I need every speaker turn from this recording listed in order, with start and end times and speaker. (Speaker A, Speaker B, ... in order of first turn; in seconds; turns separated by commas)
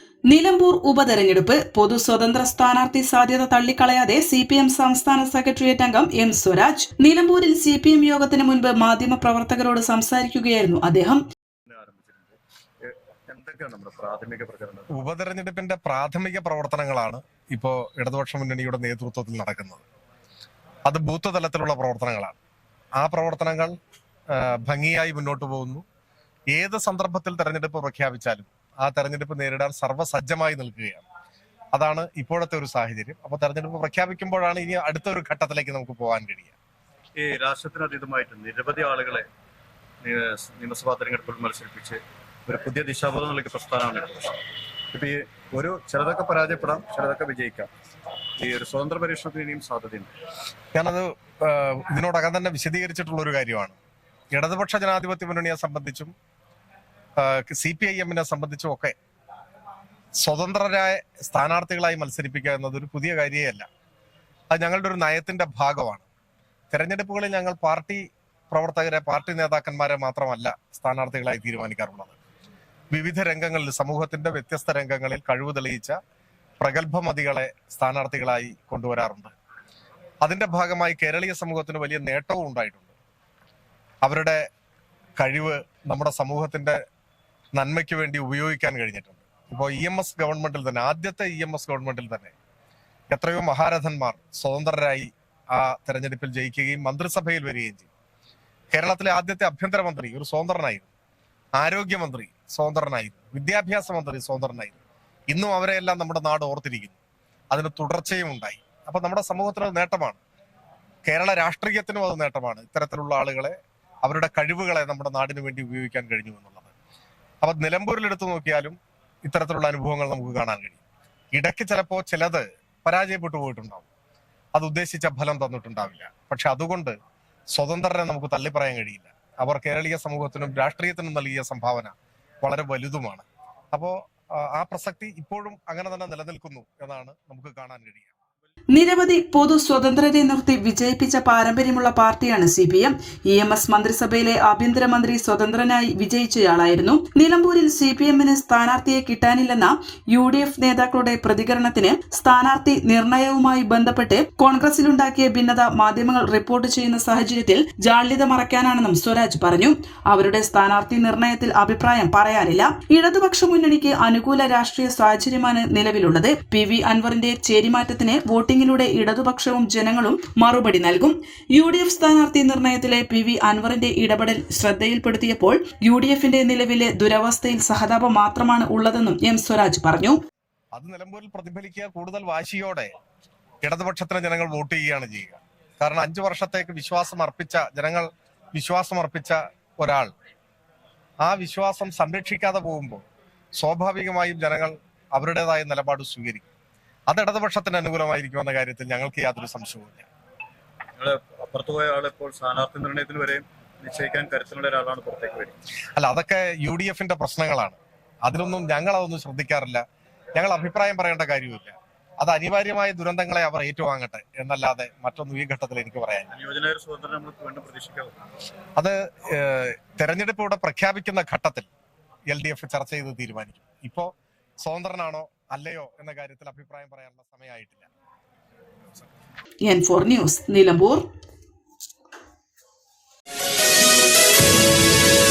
Speaker A: 0.3-11.2, Speaker B: 11.7-14.9, Speaker C: 14.9-19.8, Speaker C: 20.9-22.4, Speaker C: 23.0-23.7, Speaker C: 24.3-25.8, Speaker C: 26.5-31.0, Speaker C: 31.7-36.5, Speaker B: 37.2-39.2, Speaker B: 40.0-44.4, Speaker B: 44.9-47.7, Speaker B: 48.4-50.1, Speaker C: 50.7-53.8, Speaker C: 54.3-56.1, Speaker C: 57.2-58.9, Speaker C: 60.2-63.7, Speaker C: 64.5-66.1, Speaker C: 66.7-72.2, Speaker C: 72.9-76.0, Speaker C: 76.6-79.3, Speaker C: 80.2-82.9, Speaker C: 84.0-84.4, Speaker C: 85.2-86.8, Speaker C: 87.5-92.3, Speaker C: 93.1-97.9, Speaker C: 98.7-100.9, Speaker C: 101.6-104.8, Speaker C: 105.3-107.0, Speaker C: 107.5-110.2, Speaker C: 111.0-116.7, Speaker C: 117.4-120.8, Speaker C: 121.3-123.9, Speaker C: 124.5-126.9, Speaker C: 127.5-138.2, Speaker A: 138.7-180.2, Speaker C: 180.7-182.9, Speaker C: 183.6-190.1, Speaker C: 191.2-193.0, Speaker C: 193.6-196.5, Speaker C: 197.1-200.1, Speaker B: 201.0-205.6, Speaker C: 206.0-209.8, Speaker C: 210.3-216.3, Speaker B: 216.3-218.1, Speaker C: 218.8-221.7, Speaker C: 222.3-224.1, Speaker C: 224.6-227.9, Speaker A: 229.6-231.0